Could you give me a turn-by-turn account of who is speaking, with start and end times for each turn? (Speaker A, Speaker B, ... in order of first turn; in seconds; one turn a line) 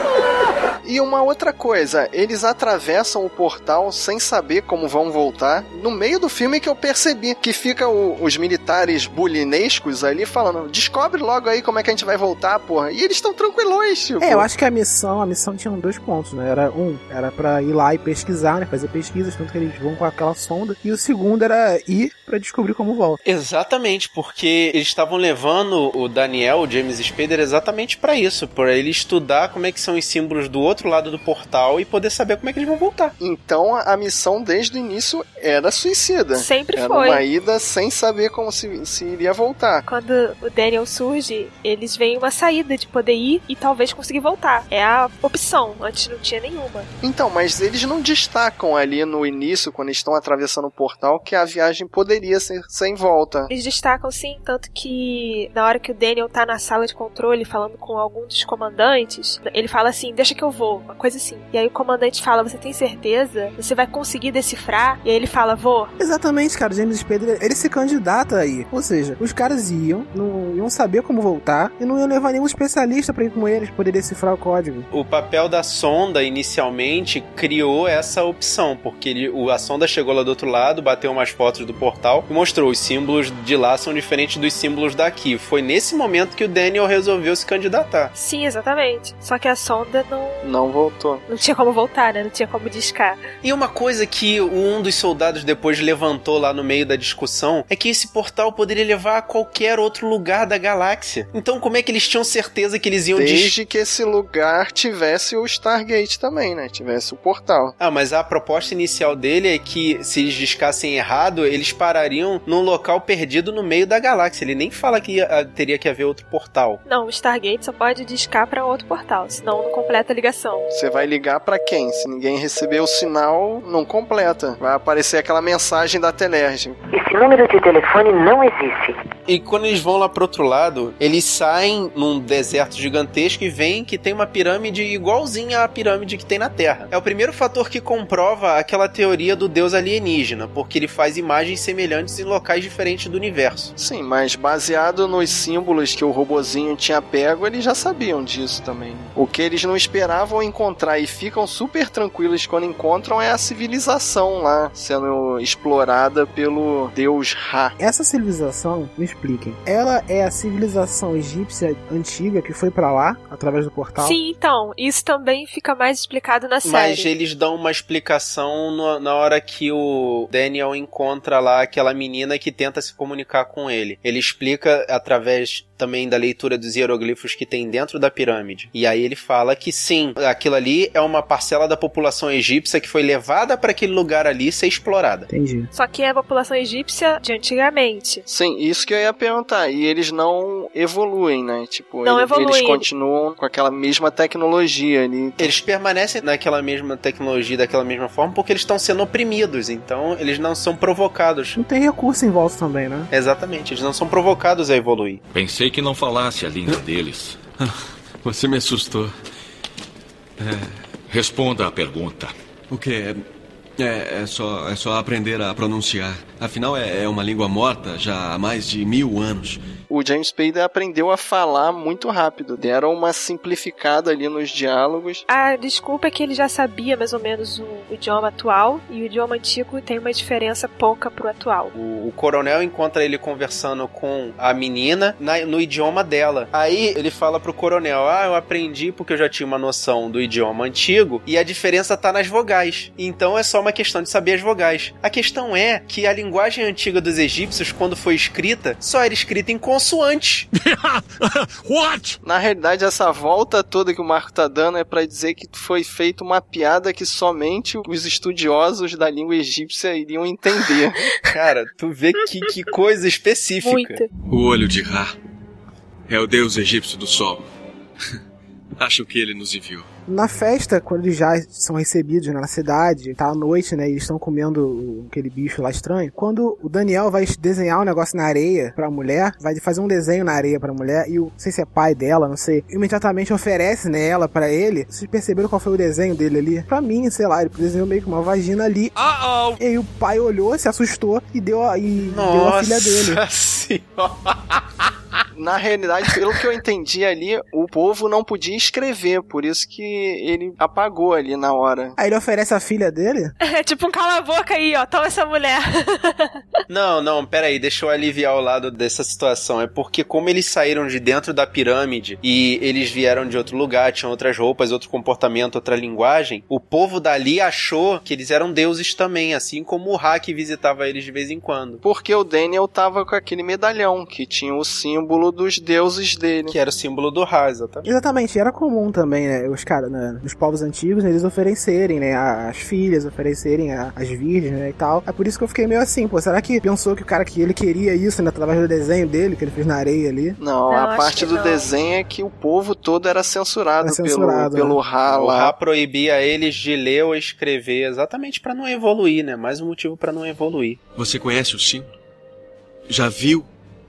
Speaker A: 0.8-14.5
Speaker B: 14.2-23.2
Speaker C: 23.2-33.1
Speaker A: 33.2-39.9
Speaker D: 36.4-37.2
Speaker D: 39.9-46.9
Speaker A: 47.0-53.5
Speaker D: 53.5-65.9
Speaker B: 66.0-74.9
Speaker C: 74.9-88.1
Speaker D: 88.2-90.5
Speaker A: 90.4-91.2
Speaker D: 91.3-93.2
Speaker C: 93.4-103.5
Speaker A: 103.2-107.8
Speaker C: 107.8-116.8
Speaker D: 116.8-120.7
Speaker A: 120.7-126.8
Speaker E: 126.9-129.0
Speaker C: 129.3-143.7
Speaker A: 143.8-157.8
Speaker B: 157.8-164.2
Speaker D: 164.0-167.1
Speaker C: 166.6-185.3
Speaker B: 185.3-185.7
Speaker D: 185.7-188.2
Speaker A: 188.3-195.6
Speaker D: 192.0-192.9
Speaker C: 195.4-201.6
Speaker B: 201.6-203.1
Speaker C: 203.1-205.2
Speaker F: 205.3-207.4
Speaker G: 207.6-209.1
Speaker G: 210.4-210.8
Speaker F: 211.1-212.3
Speaker G: 212.7-213.2
Speaker G: 213.8-219.6
Speaker A: 219.9-225.2
Speaker D: 225.3-231.7
Speaker C: 231.7-250.5
Speaker A: 252.2-261.1
Speaker C: 261.3-264.0
Speaker D: 263.6-264.1
Speaker G: 264.3-265.1
Speaker G: 266.1-267.5
Speaker G: 268.8-269.9
Speaker B: 270.1-288.9
Speaker B: 289.6-293.2
Speaker C: 292.1-294.6
Speaker A: 295.4-302.0
Speaker B: 302.0-303.3
Speaker D: 303.4-306.4
Speaker C: 306.7-321.8
Speaker A: 321.8-326.6
Speaker C: 326.5-327.9
Speaker B: 327.8-340.4
Speaker A: 340.4-345.5
Speaker D: 340.7-341.7
Speaker B: 343.8-344.8
Speaker C: 345.1-350.8
Speaker G: 351.0-351.9
Speaker G: 352.9-353.5